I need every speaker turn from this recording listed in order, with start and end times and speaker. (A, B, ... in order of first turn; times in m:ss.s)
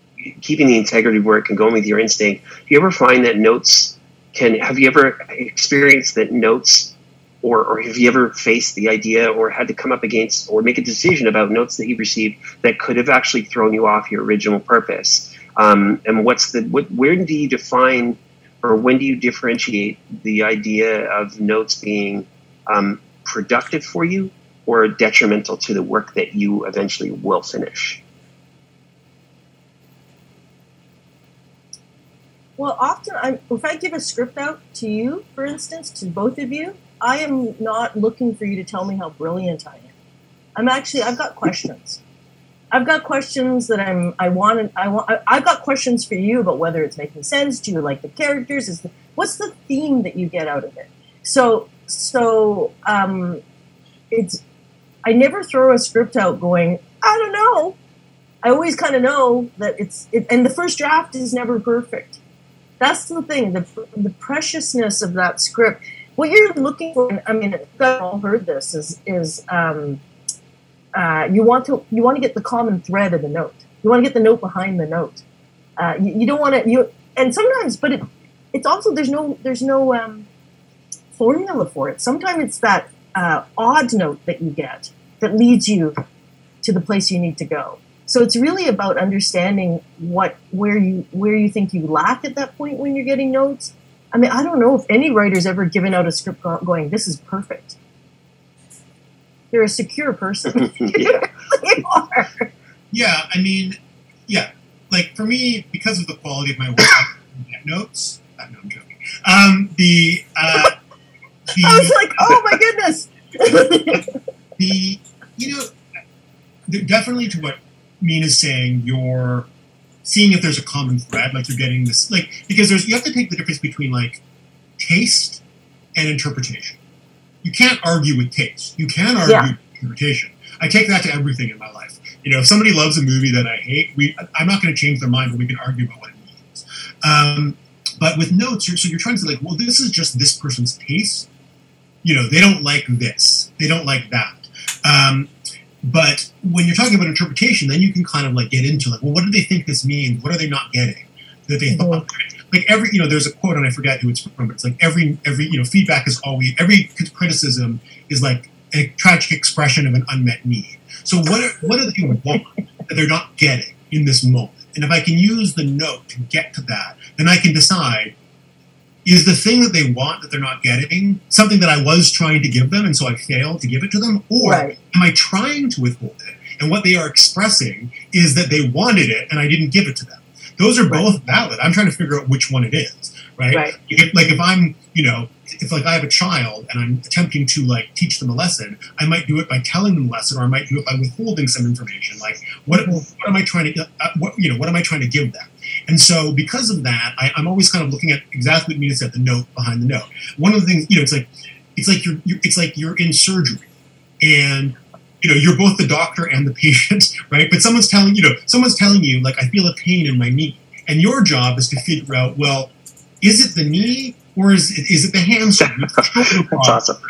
0:00.2-0:28.0 A
0:32.6-0:39.9 B
0:40.6-0:42.0 B
0:42.7-0:53.4 B
0:54.1-0:54.4 B
0:55.0-0:57.8 B
0:58.4-1:02.2 B
1:02.8-1:10.0 B
1:10.9-1:15.2 B
1:15.8-1:20.3 B
1:21.1-1:25.9 B
1:26.6-1:37.8 B
1:39.5-1:42.5 B
1:40.6-1:41.3 A
1:42.9-1:50.7 C
1:51.5-1:52.6 C
1:51.6-1:54.1 B
1:54.6-1:55.7 C
1:56.7-1:59.5 C
2:00.0-2:04.2 C
2:04.8-2:05.4 C
2:05.9-2:06.8 C
2:07.4-2:21.3 C
2:09.2-2:09.5 B
2:22.0-2:25.3 C
2:25.8-2:48.1 C
2:31.7-2:32.0 B
2:49.0-3:23.7 C
2:54.4-2:54.8 B
3:12.7-3:13.0 B
3:24.2-3:36.8 C
3:35.6-3:37.0 A